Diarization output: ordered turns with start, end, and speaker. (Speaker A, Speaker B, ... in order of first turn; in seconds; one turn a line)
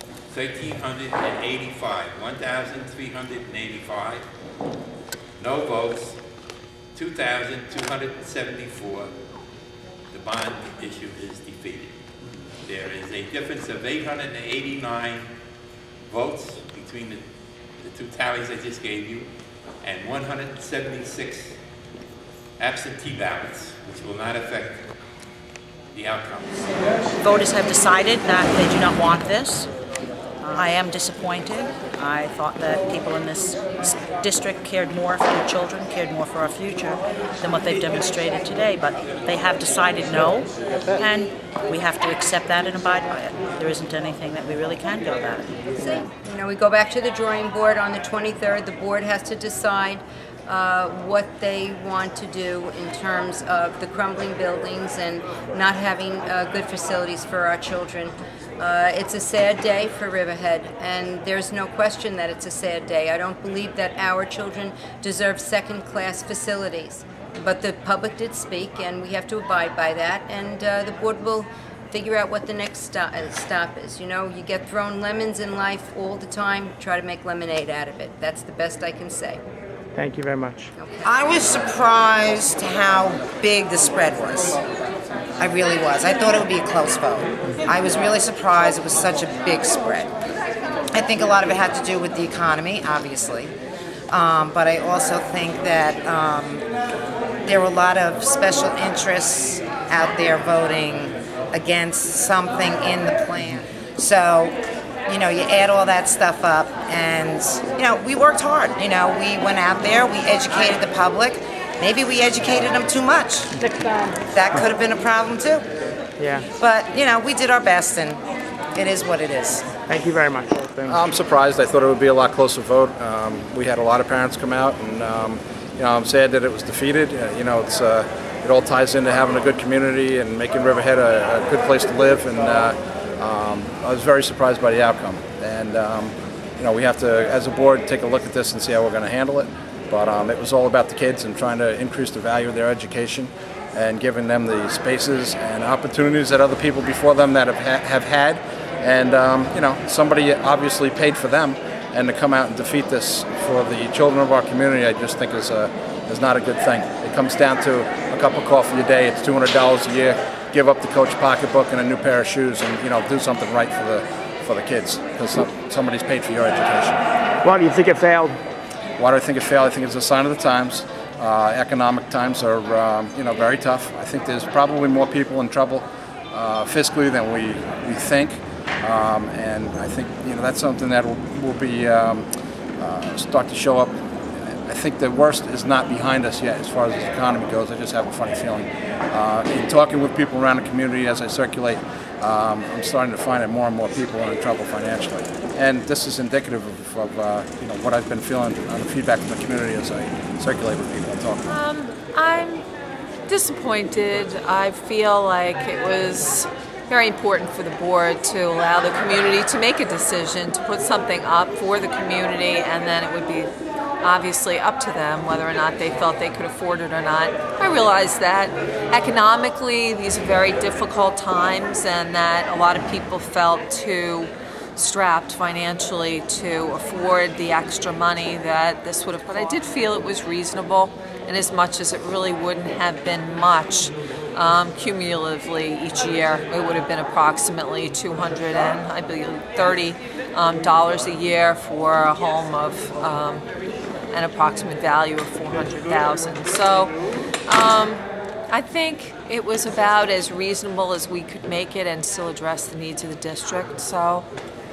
Speaker A: 0.3-4.2
Speaker A: 5.4-6.2
Speaker A: 7.0-9.1
Speaker A: 10.1-11.9
Speaker A: 12.7-15.3
Speaker A: 16.1-17.2
Speaker A: 17.8-19.3
Speaker A: 19.8-21.6
Speaker A: 22.6-24.8
Speaker A: 25.9-26.6
Speaker B: 27.2-29.7
Speaker B: 30.4-45.6
Speaker C: 45.8-79.4
Speaker D: 79.9-80.7
Speaker C: 80.8-81.1
Speaker E: 81.0-84.6
Speaker E: 85.4-90.1
Speaker E: 90.9-93.5
Speaker E: 94.1-96.7
Speaker E: 97.5-113.5
Speaker E: 114.3-115.7
Speaker D: 116.2-116.5
Speaker E: 116.6-118.2
Speaker E: 118.8-119.7
Speaker D: 119.9-121.0
Speaker F: 120.9-167.0
Speaker D: 167.4-168.4
Speaker F: 169.0-182.3
Speaker F: 182.8-201.5
Speaker G: 201.5-202.7
Speaker G: 203.3-243.4
Speaker G: 244.1-246.9
Speaker G: 247.5-254.3